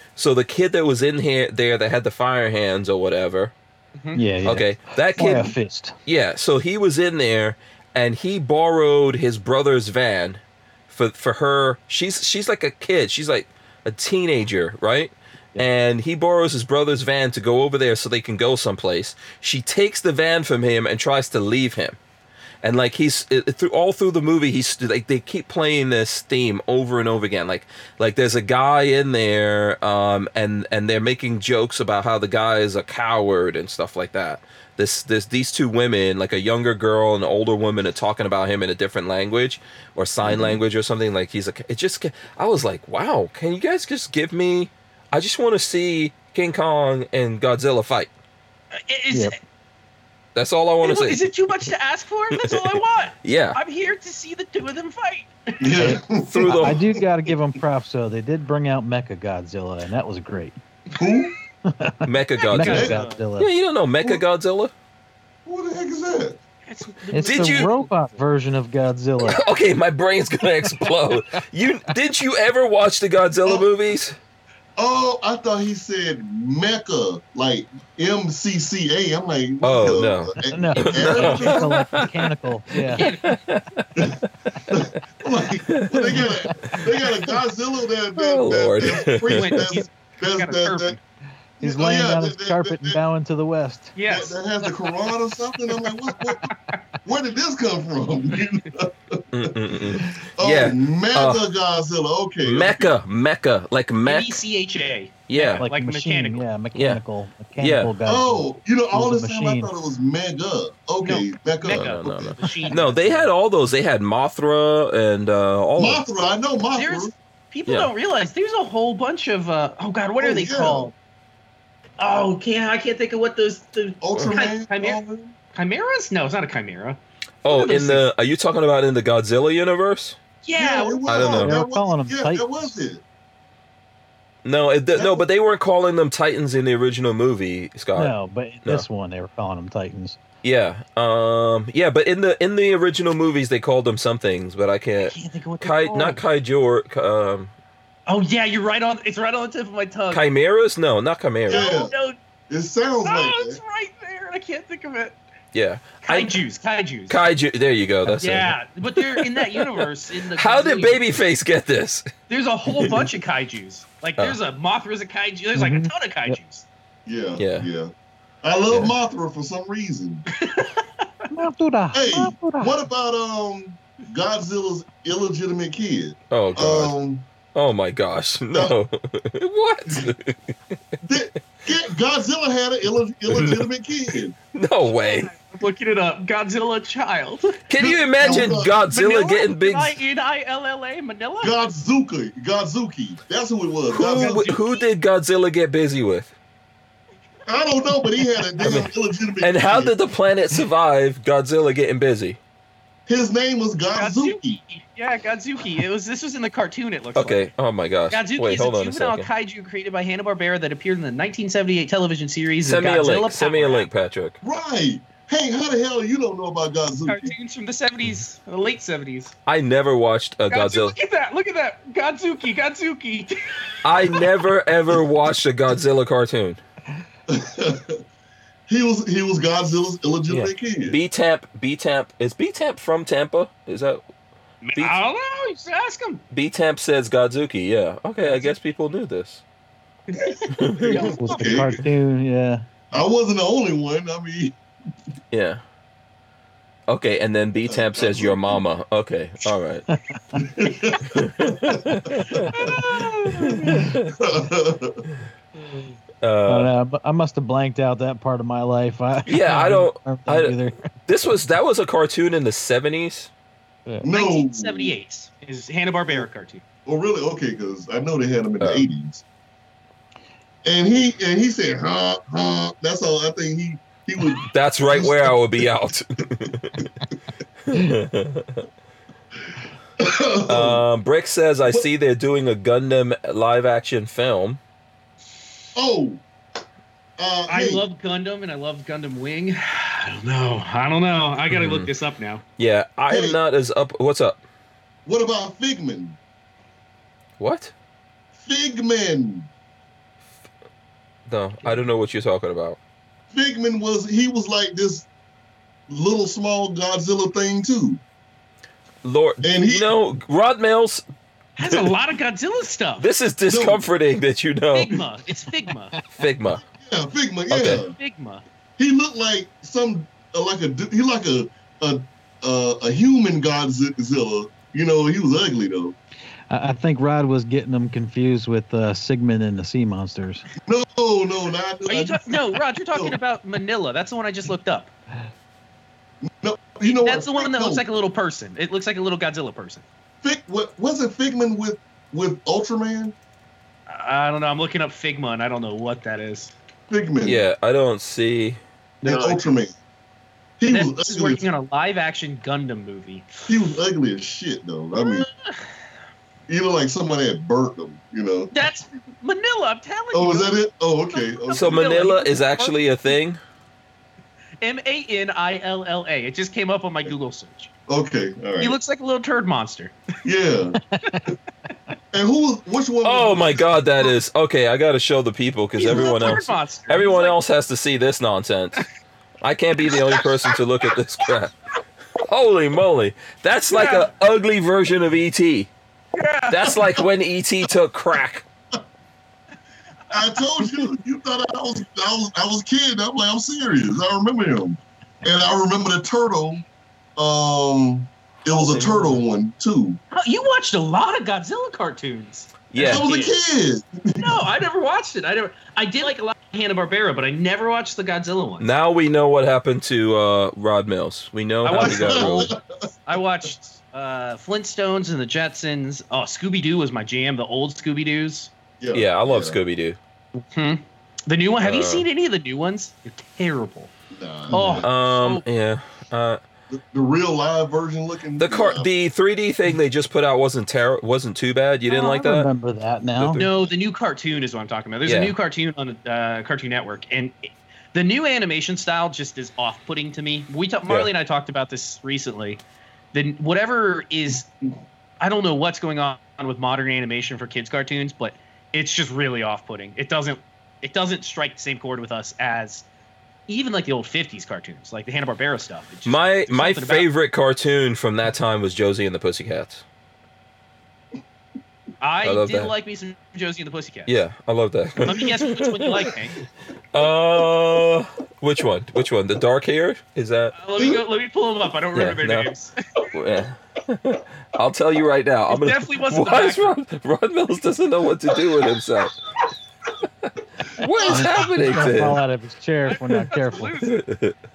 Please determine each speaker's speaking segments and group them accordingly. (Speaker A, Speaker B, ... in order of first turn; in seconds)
Speaker A: 0.1-3.5, 4.4-5.5, 6.0-22.0, 22.6-48.1, 50.3-51.2, 52.3-53.6, 56.3-56.8, 62.0-64.7, 67.2-67.7, 69.2-74.2, 79.6-82.1, 82.8-84.1, 85.7-86.8, 88.2-89.6, 99.3-101.4, 102.4-104.4, 105.3-105.7, 106.7-107.0, 107.6-107.9, 111.7-116.0, 127.4-130.2, 131.1-131.6, 134.4-138.8, 140.4-147.5, 150.1-151.6, 155.5-156.3, 157.1-159.8, 160.3-162.1, 162.7-163.0, 167.4-167.7, 176.3-176.9, 177.5-180.5, 183.3-183.6, 184.5-185.3, 187.7-190.0, 193.9-196.3, 198.6-198.9, 199.4-202.4, 207.2-209.3, 212.6-214.4, 219.4-220.9, 223.8-226.6, 230.8-234.0, 234.7-235.0, 236.3-239.4, 240.5-240.9, 245.3-245.6, 246.9-249.8, 251.1-252.8, 253.3-254.1, 256.2-256.7, 259.3-263.3, 274.4-276.9, 277.7-278.6, 280.5-284.6, 291.5-291.9, 292.6-294.4, 297.4-297.7, 301.3-302.8, 309.0-311.0, 311.6-311.9, 313.0-314.9, 316.1-316.6, 317.5-317.8, 347.2-348.6, 361.5-363.4, 373.0-378.9, 379.4-381.5, 382.2-385.7, 386.5-388.4, 402.7-403.3, 408.6-412.5, 418.9-420.0, 421.6-422.1, 424.8-426.4, 428.4-432.5, 433.2-433.5, 435.0-435.3, 456.0-459.8, 462.2-462.7, 464.1-466.1, 466.9-470.5, 471.9-472.5, 473.1-479.1, 480.8-482.2, 483.8-484.4
Speaker B: 4.0-4.2, 48.7-49.4, 50.8-56.0, 60.9-61.2, 62.5-63.2, 66.6-67.9, 82.9-83.3, 88.8-91.0, 93.9-94.7, 95.7-96.8, 104.0-106.4, 111.0-113.3, 116.7-120.9, 122.0-125.0, 125.5-128.0, 130.4-131.5, 145.0-146.2, 148.1-150.2, 151.5-152.2, 153.0-155.2, 156.0-157.2, 158.2-161.0, 162.3-166.7, 170.3-171.1, 184.9-187.6, 188.2-191.6, 194.1-194.8, 203.9-207.5, 208.1-213.9, 217.1-219.3, 220.5-224.2, 234.6-236.2, 238.2-238.5, 240.1-241.8, 252.5-253.8, 264.1-266.6, 287.5-292.4, 311.6-313.1, 314.7-315.9, 317.9-318.4, 331.9-334.9, 336.9-339.8, 343.9-346.5, 349.0-349.3, 350.7-353.5, 354.9-355.6, 358.5-360.5, 361.1-363.1, 364.6-367.7, 368.6-369.9, 375.8-377.4, 380.0-380.2, 383.7-384.1, 386.1-387.1, 390.1-390.7, 398.5-399.2, 400.1-403.3, 404.2-408.7, 411.6-412.5, 413.1-418.5, 420.3-423.9, 424.5-425.4, 433.3-442.6, 443.1-444.5, 445.2-452.8, 453.5-457.1, 462.0-464.1, 465.0-466.4, 470.5-473.1, 475.5-476.7, 482.9-484.0
Speaker C: 4.1-6.0, 55.8-60.5, 61.6-63.5, 67.1-69.4, 80.5-83.1, 91.6-93.9, 105.6-109.7, 131.4-132.8, 137.9-140.2, 165.5-166.4, 171.3-172.7, 241.1-242.6, 249.9-250.4, 256.5-260.8, 326.5-330.4, 349.0-349.3, 370.9-371.2, 431.9-433.5, 481.1-483.8
Speaker D: 40.2-40.6, 55.6-57.0, 60.9-61.3, 62.7-63.0, 65.5-66.4, 74.8-81.8, 84.7-91.0, 91.6-93.0, 94.1-103.0, 108.0-112.6, 115.8-117.1, 120.2-120.9, 124.0-125.3, 130.6-133.0, 134.9-135.2, 151.5-151.9, 152.5-153.6, 167.1-167.9, 168.4-170.2, 171.9-177.2, 181.0-184.3, 187.8-188.8, 191.4-194.5, 197.5-199.9, 203.1-204.6, 214.4-217.3, 227.3-228.0, 228.7-231.0, 240.8-241.8, 242.9-244.6, 247.7-248.6, 250.3-252.8, 254.1-255.0, 264.0-264.9, 266.9-269.2, 270.6-275.6, 280.0-280.8, 285.7-286.2, 287.2-287.8, 293.1-293.4, 295.1-296.2, 298.4-299.5, 303.3-305.1, 305.9-308.0, 309.4-309.9, 313.5-313.8, 316.8-317.9, 318.8-325.9, 330.6-333.2, 336.2-337.8, 340.2-343.1, 346.9-347.4, 349.0-349.7, 350.6-351.4, 353.5-355.3, 356.5-358.5, 360.1-361.9, 367.9-368.8, 370.2-370.8, 372.1-373.7, 375.8-376.5, 390.1-396.6, 397.2-400.0, 402.8-404.4, 411.7-412.9, 418.8-419.6, 424.1-424.9, 426.7-428.9, 470.8-471.0